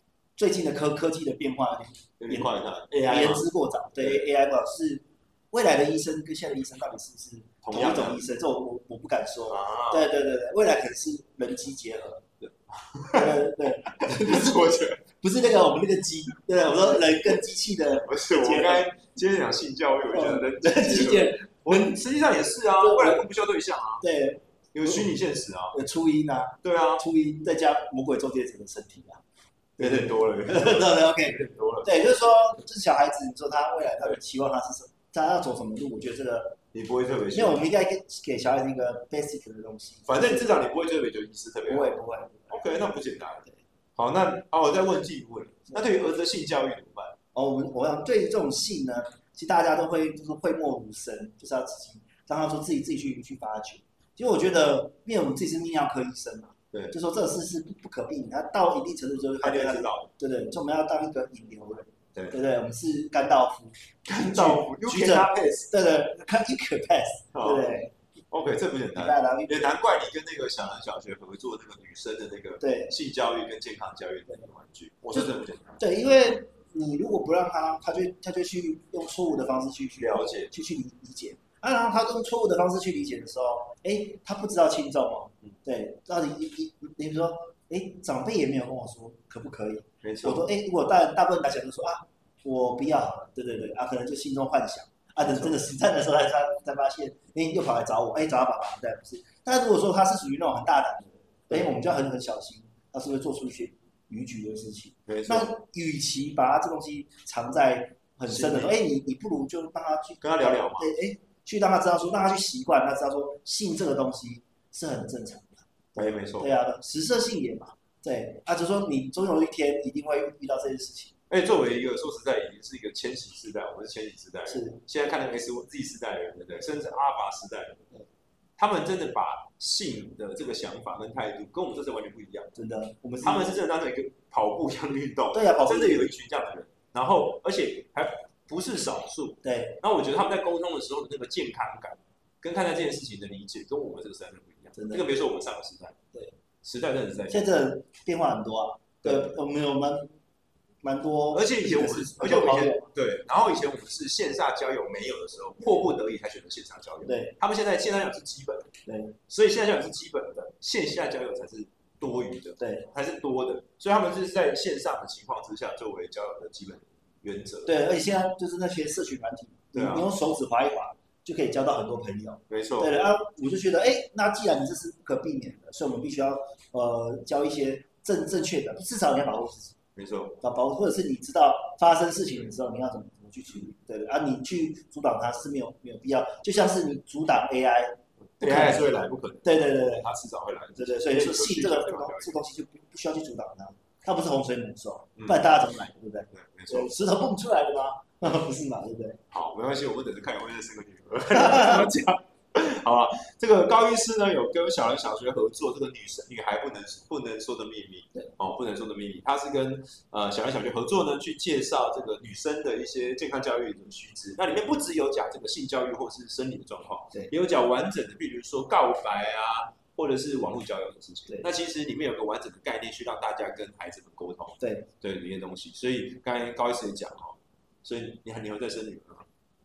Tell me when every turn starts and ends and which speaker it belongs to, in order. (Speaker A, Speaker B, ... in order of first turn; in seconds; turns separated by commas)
Speaker A: 0.4-12.2, Speaker B: 2.2-4.2, Speaker B: 7.6-8.2, Speaker B: 9.5-10.1, Speaker B: 12.4-15.0, Speaker A: 13.1-18.9, Speaker B: 18.1-24.1, Speaker A: 20.1-22.0, Speaker A: 22.8-23.3, Speaker A: 24.0-25.1, Speaker B: 24.7-25.8, Speaker A: 25.7-29.2, Speaker B: 26.6-27.0, Speaker B: 29.8-31.9, Speaker A: 29.8-36.6, Speaker B: 36.7-37.6, Speaker A: 37.3-40.6, Speaker B: 40.1-42.0, Speaker A: 41.7-42.6, Speaker B: 42.5-47.2, Speaker A: 47.3-67.9, Speaker B: 59.4-60.1, Speaker B: 64.1-65.7, Speaker B: 67.3-67.8, Speaker B: 68.3-75.8, Speaker A: 69.0-69.7, Speaker A: 72.6-72.9, Speaker A: 75.1-121.1, Speaker B: 80.0-80.5, Speaker B: 90.0-90.5, Speaker B: 95.2-95.6, Speaker B: 105.1-105.5, Speaker B: 108.3-108.8, Speaker B: 110.2-110.9, Speaker B: 116.0-116.5, Speaker B: 121.3-127.9, Speaker A: 124.5-124.8, Speaker B: 128.6-132.5, Speaker A: 132.6-133.6, Speaker B: 133.2-146.0, Speaker A: 135.3-136.1, Speaker A: 139.4-139.8, Speaker A: 144.8-145.1, Speaker B: 146.6-147.4, Speaker A: 147.3-150.1, Speaker B: 149.0-149.3, Speaker A: 150.8-152.9, Speaker B: 151.3-158.7, Speaker A: 157.1-157.3, Speaker A: 158.9-159.2, Speaker B: 159.3-167.8, Speaker A: 162.6-162.9, Speaker A: 167.7-179.8, Speaker B: 169.7-170.1, Speaker B: 172.5-172.9, Speaker B: 180.0-180.4, Speaker A: 180.4-190.1, Speaker B: 188.4-192.4, Speaker A: 190.8-199.2, Speaker B: 195.2-195.5, Speaker B: 196.3-196.9, Speaker B: 199.3-229.3, Speaker A: 201.3-201.9, Speaker A: 224.6-224.9